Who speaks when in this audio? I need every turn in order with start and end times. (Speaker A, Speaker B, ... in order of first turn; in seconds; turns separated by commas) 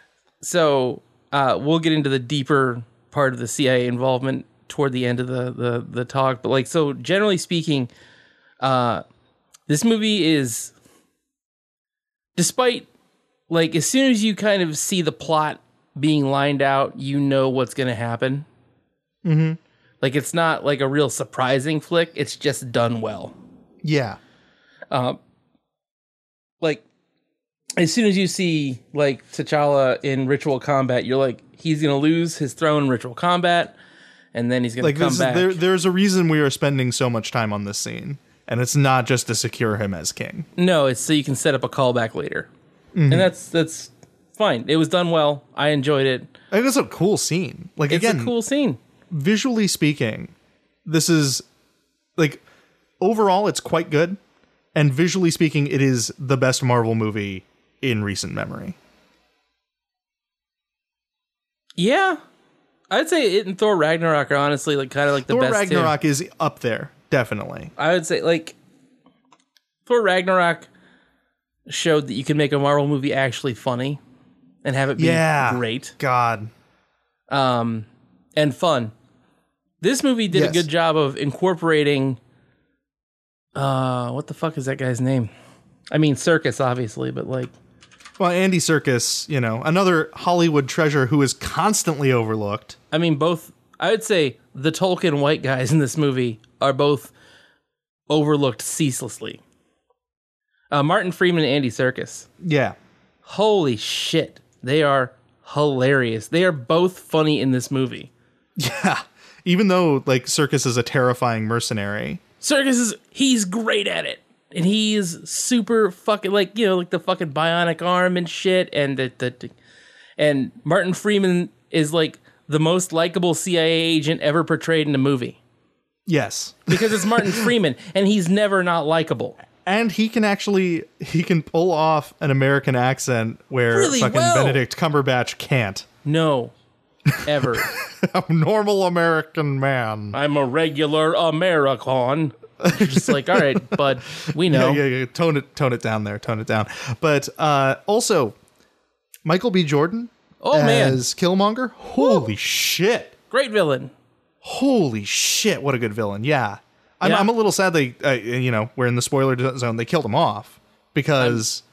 Speaker A: 0.4-7.9, Speaker A: 8.6-9.0, Speaker A: 9.7-10.7, Speaker A: 12.3-12.9, Speaker A: 13.5-18.4, Speaker B: 19.2-19.6, Speaker A: 20.0-23.3, Speaker B: 23.8-24.2, Speaker A: 24.9-25.2, Speaker A: 27.8-33.7, Speaker A: 34.3-35.6, Speaker B: 34.8-40.5, Speaker A: 40.6-42.5, Speaker B: 42.9-43.3, Speaker A: 43.1-46.3, Speaker B: 46.5-48.3, Speaker A: 47.9-48.8, Speaker B: 49.1-50.3, Speaker B: 50.9-51.4, Speaker B: 52.2-52.4, Speaker B: 53.0-54.2, Speaker B: 54.7-58.8, Speaker A: 61.8-62.2, Speaker A: 62.9-65.9, Speaker B: 65.3-67.7, Speaker A: 67.8-68.6, Speaker A: 69.8-70.7, Speaker A: 71.7-74.0, Speaker A: 74.6-76.0, Speaker B: 75.0-76.5, Speaker A: 77.3-78.9, Speaker A: 79.8-82.2, Speaker B: 80.3-80.7, Speaker A: 83.5-85.3, Speaker A: 85.9-87.5, Speaker B: 88.2-92.8, Speaker A: 92.9-97.1, Speaker A: 98.1-99.4, Speaker A: 100.7-102.3, Speaker B: 102.4-102.8, Speaker A: 103.2-108.1, Speaker B: 108.6-112.2, Speaker A: 112.4-119.5, Speaker A: 120.2-125.4, Speaker B: 126.1-127.5, Speaker A: 126.7-129.4, Speaker B: 129.6-135.8, Speaker A: 133.7-134.6, Speaker A: 136.0-136.5, Speaker B: 137.1-140.2, Speaker A: 137.2-137.7, Speaker A: 140.1-144.8, Speaker B: 142.6-143.8, Speaker B: 144.3-148.3, Speaker B: 149.2-153.1, Speaker A: 150.4-151.0, Speaker A: 153.3-153.9, Speaker B: 154.4-161.6, Speaker A: 157.0-157.3